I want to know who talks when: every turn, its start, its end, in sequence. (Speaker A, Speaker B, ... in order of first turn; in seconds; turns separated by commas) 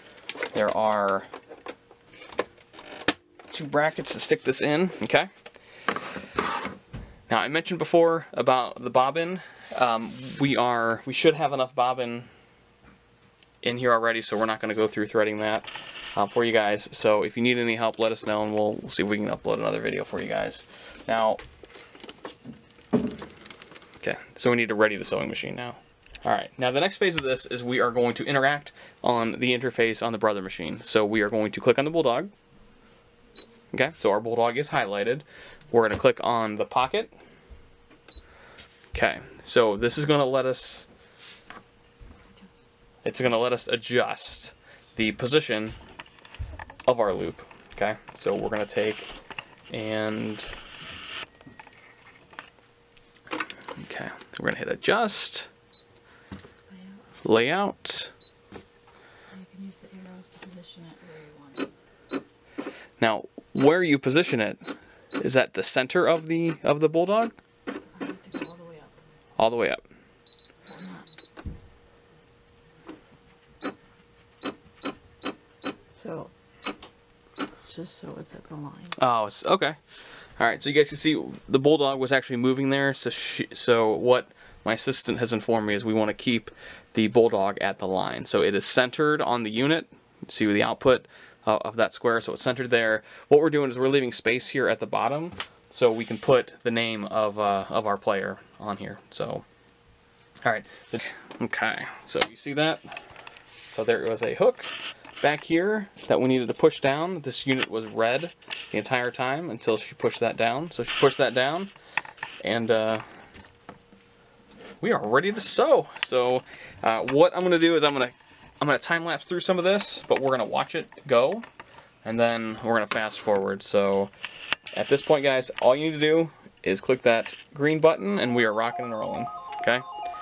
Speaker A: 0.5-1.3, Speaker A: 3.5-5.3, Speaker A: 7.3-12.3, Speaker A: 13.6-21.4, Speaker A: 24.0-32.3, Speaker A: 33.7-37.1, Speaker A: 38.9-40.9, Speaker A: 43.0-45.8, Speaker A: 46.9-49.1, Speaker A: 49.7-50.5, Speaker A: 53.8-55.5, Speaker A: 57.2-58.1, Speaker B: 59.3-61.7, Speaker A: 63.0-67.3, Speaker B: 67.9-69.0, Speaker A: 69.4-69.8, Speaker B: 70.7-71.1, Speaker B: 76.0-76.3, Speaker B: 77.6-79.0, Speaker A: 79.0-79.8, Speaker A: 80.4-99.4, Speaker A: 100.4-103.0, Speaker A: 103.7-111.7, Speaker A: 112.4-113.0, Speaker A: 114.8-121.5, Speaker A: 122.0-124.1, Speaker A: 124.7-129.8